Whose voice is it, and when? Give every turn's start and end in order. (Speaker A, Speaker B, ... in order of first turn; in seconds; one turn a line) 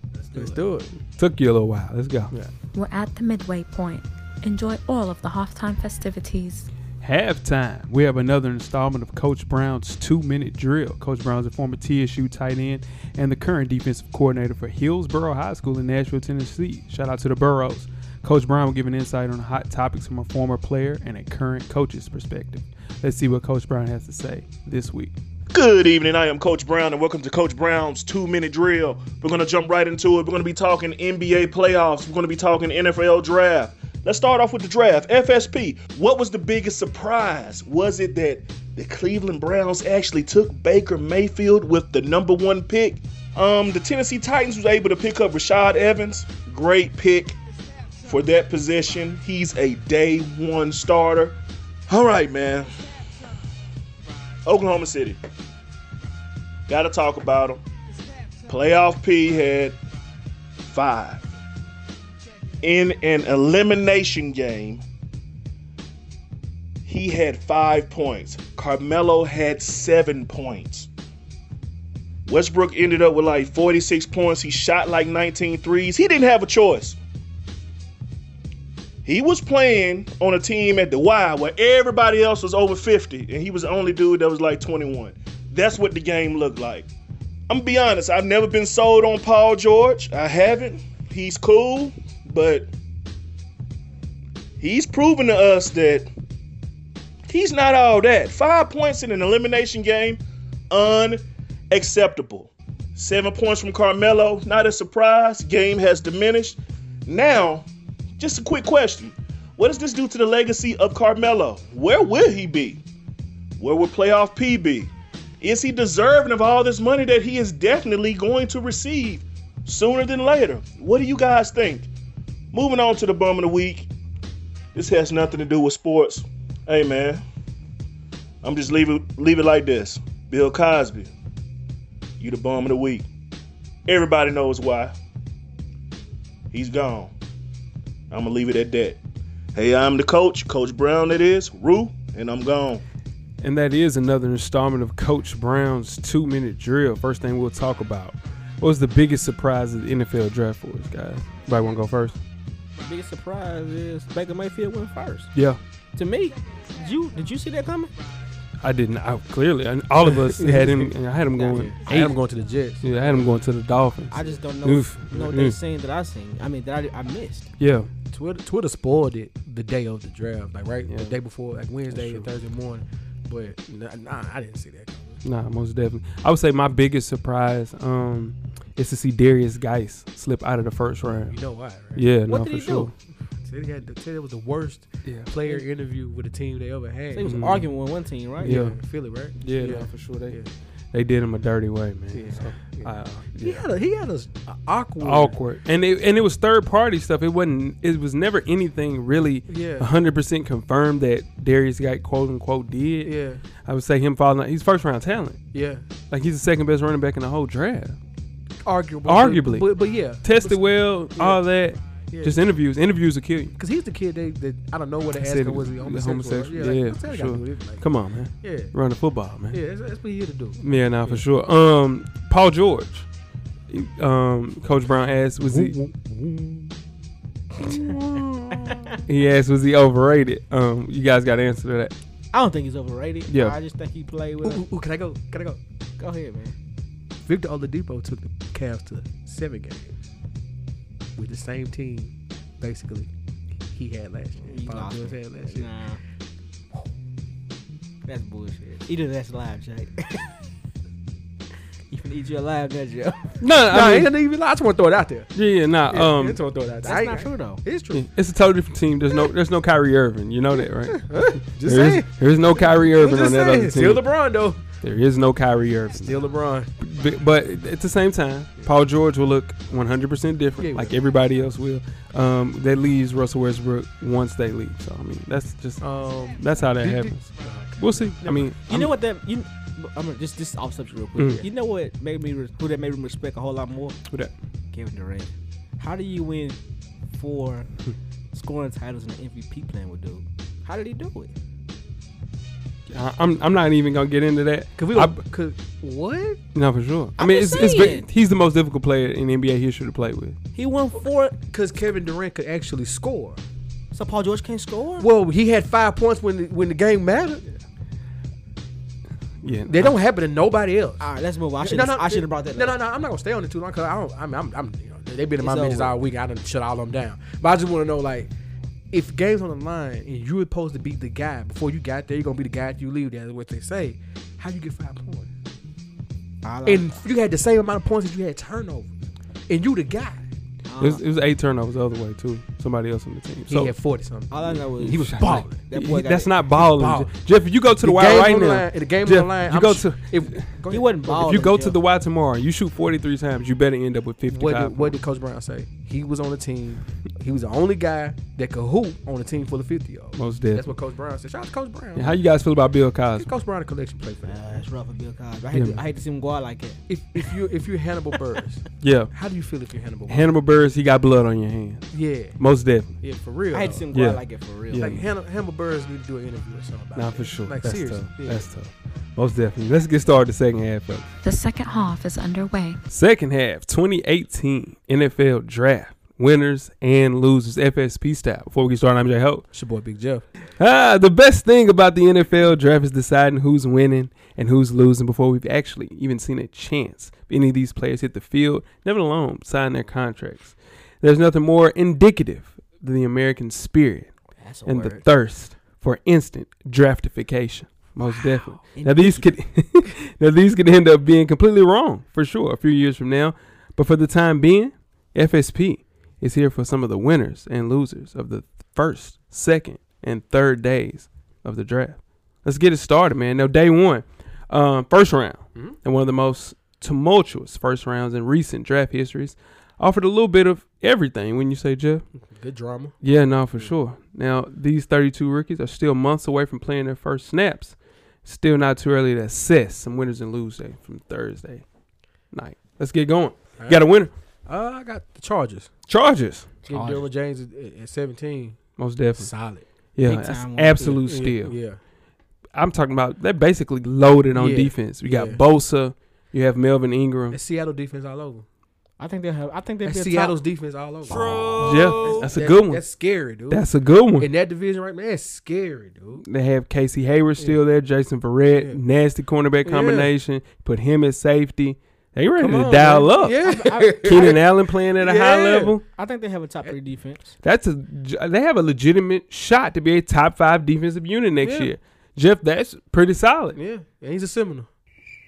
Speaker A: 0.2-1.0
Speaker B: 1.2-2.3
Speaker C: 2.7-6.7
Speaker B: 7.0-25.1
Speaker D: 25.5-47.4
Speaker D: 48.0-51.4
Speaker D: 51.9-52.7
Speaker D: 54.4-55.2
Speaker D: 56.7-57.6
Speaker D: 58.5-59.8
Speaker D: 60.7-61.3
Speaker D: 62.6-64.8
Speaker D: 66.8-70.9
Speaker D: 72.3-77.0
Speaker D: 79.0-86.9
Speaker D: 87.5-92.7
Speaker D: 94.6-96.1
Speaker D: 97.3-100.2
Speaker D: 100.7-107.7
Speaker D: 108.2-112.8
Speaker D: 113.6-121.9
Speaker D: 122.5-123.9
Speaker D: 124.7-127.2
Speaker D: 128.4-131.1
Speaker D: 132.2-133.1
Speaker D: 133.9-134.9
Speaker D: 136.5-137.1
Speaker D: 138.1-139.0
Speaker D: 139.5-142.8
Speaker B: 143.4-152.2
Speaker E: 152.8-155.3
Speaker B: 155.3-155.6
Speaker E: 155.9-157.9
Speaker B: 158.6-162.2
Speaker A: 160.1-163.3
Speaker E: 161.4-161.7
Speaker B: 162.8-165.6
Speaker E: 164.1-167.5
Speaker B: 167.6-167.9
Speaker A: 168.1-175.2
Speaker B: 170.9-171.1
Speaker B: 171.9-172.3
Speaker B: 175.2-181.3
Speaker A: 181.2-182.1
Speaker B: 181.9-182.9
Speaker E: 182.3-182.9
Speaker A: 183.4-187.6
Speaker B: 185.0-185.3
Speaker E: 187.1-188.6
Speaker B: 187.2-187.7
Speaker A: 188.4-190.5
Speaker B: 188.4-188.8
Speaker B: 189.4-190.4
Speaker B: 190.9-193.7
Speaker A: 192.1-195.4
Speaker B: 195.0-205.4
Speaker A: 199.5-199.9
Speaker A: 203.0-203.4
Speaker A: 205.5-205.8
Speaker B: 206.1-208.0
Speaker A: 208.6-211.4
Speaker B: 209.0-213.5
Speaker A: 212.1-212.4
Speaker A: 213.6-217.9
Speaker B: 215.2-219.6
Speaker A: 218.4-218.7
Speaker A: 219.5-221.2
Speaker B: 220.6-223.1
Speaker B: 223.7-225.8
Speaker A: 225.4-226.8
Speaker E: 227.6-227.9
Speaker B: 227.7-228.2
Speaker A: 227.9-228.9
Speaker B: 229.0-231.9
Speaker E: 232.3-234.7
Speaker B: 233.3-233.6
Speaker A: 234.4-235.6
Speaker E: 236.0-236.5
Speaker A: 237.2-239.9
Speaker A: 241.2-243.1
Speaker A: 243.7-245.7
Speaker E: 244.4-246.0
Speaker E: 248.1-250.3
Speaker E: 251.9-253.4
Speaker B: 253.4-254.1
Speaker A: 253.7-255.3
Speaker B: 255.3-256.4
Speaker A: 255.9-258.1
Speaker E: 256.8-257.6
Speaker B: 257.9-264.1
Speaker A: 260.9-264.6
Speaker B: 264.8-278.9
Speaker A: 266.0-266.7
Speaker A: 270.6-270.9
Speaker A: 275.8-278.5
Speaker E: 278.7-284.0
Speaker B: 281.2-281.4
Speaker E: 284.7-286.6
Speaker E: 287.1-287.7
Speaker E: 288.3-291.3
Speaker B: 292.9-295.2
Speaker A: 294.8-296.4
Speaker B: 296.5-300.4
Speaker E: 297.2-298.1
Speaker E: 300.5-301.4
Speaker A: 301.0-303.4
Speaker E: 303.9-305.1
Speaker A: 305.0-307.5
Speaker B: 309.4-309.9
Speaker A: 309.6-311.0
Speaker E: 311.0-312.8
Speaker A: 311.6-318.3
Speaker E: 315.4-316.0
Speaker A: 318.9-325.3
Speaker E: 326.4-327.1
Speaker A: 326.6-328.9
Speaker A: 329.5-330.2
Speaker E: 330.7-331.0
Speaker B: 330.8-333.7
Speaker A: 333.5-335.6
Speaker E: 334.3-336.3
Speaker B: 334.8-340.5
Speaker A: 336.5-337.1
Speaker A: 337.8-341.4
Speaker E: 340.7-341.8
Speaker B: 341.1-345.0
Speaker A: 344.3-352.2
Speaker B: 350.1-350.7
Speaker B: 351.9-353.3
Speaker A: 353.1-354.6
Speaker E: 354.2-357.3
Speaker B: 355.5-355.8
Speaker A: 356.9-360.3
Speaker B: 358.8-359.1
Speaker B: 360.1-363.0
Speaker A: 361.9-362.4
Speaker A: 363.0-363.9
Speaker E: 363.5-365.0
Speaker B: 363.9-365.0
Speaker A: 364.7-368.5
Speaker B: 366.9-371.1
Speaker C: 371.2-372.8
Speaker B: 372.9-379.4
Speaker A: 379.5-380.3
Speaker B: 380.6-394.1
Speaker E: 394.4-395.0
Speaker B: 394.6-422.0
Speaker E: 398.7-399.3
Speaker A: 422.3-423.0
Speaker B: 423.0-431.6
Speaker B: 432.3-434.1
Speaker A: 433.6-433.9
Speaker A: 434.4-435.7
Speaker B: 435.9-436.5
Speaker E: 436.7-437.1
Speaker A: 436.7-438.6
Speaker B: 438.8-439.3
Speaker A: 439.1-439.6
Speaker B: 439.9-441.6
Speaker E: 440.0-441.0
Speaker A: 441.0-441.8
Speaker B: 442.5-447.4
Speaker A: 444.3-445.4
Speaker A: 447.3-448.4
Speaker E: 449.0-450.4
Speaker A: 449.8-456.2
Speaker B: 451.6-452.8
Speaker B: 453.5-454.3
Speaker B: 456.2-463.4
Speaker A: 458.5-458.8
Speaker A: 459.6-460.1
Speaker A: 462.4-465.8
Speaker E: 463.4-464.3
Speaker B: 464.0-465.8
Speaker E: 465.9-467.3
Speaker B: 467.4-473.6
Speaker A: 471.4-471.7
Speaker A: 473.5-474.7